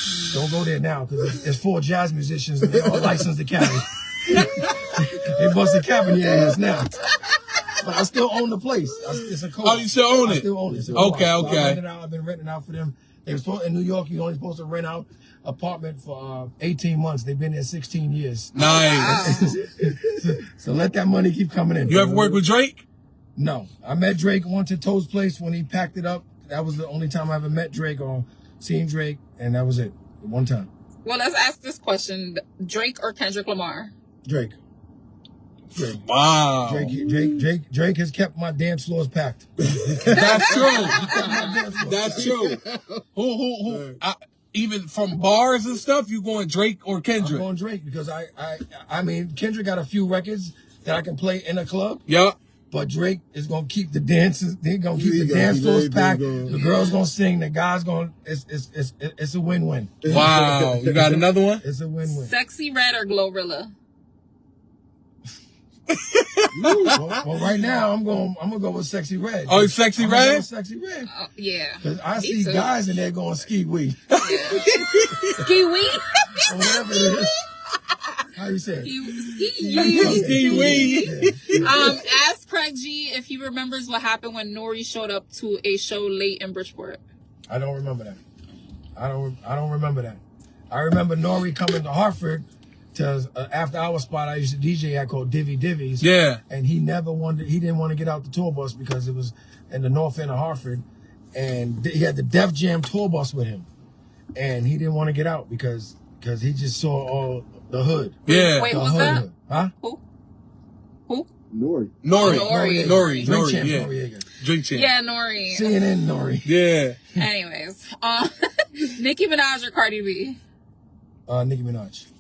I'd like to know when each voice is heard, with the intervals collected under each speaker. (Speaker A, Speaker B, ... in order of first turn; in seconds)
Speaker A: 0.2-7.0, 7.7-22.4, 23.4-30.7, 34.2-34.6, 36.6-39.5, 40.8-42.4, 47.2-52.0, 52.7-60.3, 61.0-62.3, 66.6-71.1, 71.8-74.0, 76.4-77.4, 78.3-78.9, 79.6-81.9, 87.5-88.2, 89.0-103.7, 104.3-109.7, 112.1-114.3, 115.5-116.5, 121.3-122.1
Speaker B: 2.7-3.2, 4.6-6.6, 7.2-7.7, 10.6-11.4, 36.9-37.4, 39.6-40.4, 42.1-42.6, 43.7-44.0, 54.9-56.6, 60.0-61.2, 66.5-67.0, 111.5-112.0
Speaker C: 9.6-11.8, 18.5-19.4, 21.9-22.8, 35.7-36.9, 40.0-41.1, 41.8-47.4, 52.1-52.4, 60.1-61.6, 65.9-67.1, 69.5-70.4, 74.1-75.5, 79.7-82.0, 96.0-96.4, 108.2-108.7, 112.0-114.9, 116.4-117.0
Speaker D: 18.6-19.6, 31.0-33.9, 40.1-41.5, 56.5-57.0, 62.0-63.7, 71.1-72.7, 74.2-74.7, 75.3-76.4, 78.8-87.0, 108.3-109.2, 112.1-113.3, 114.7-115.8, 117.1-120.4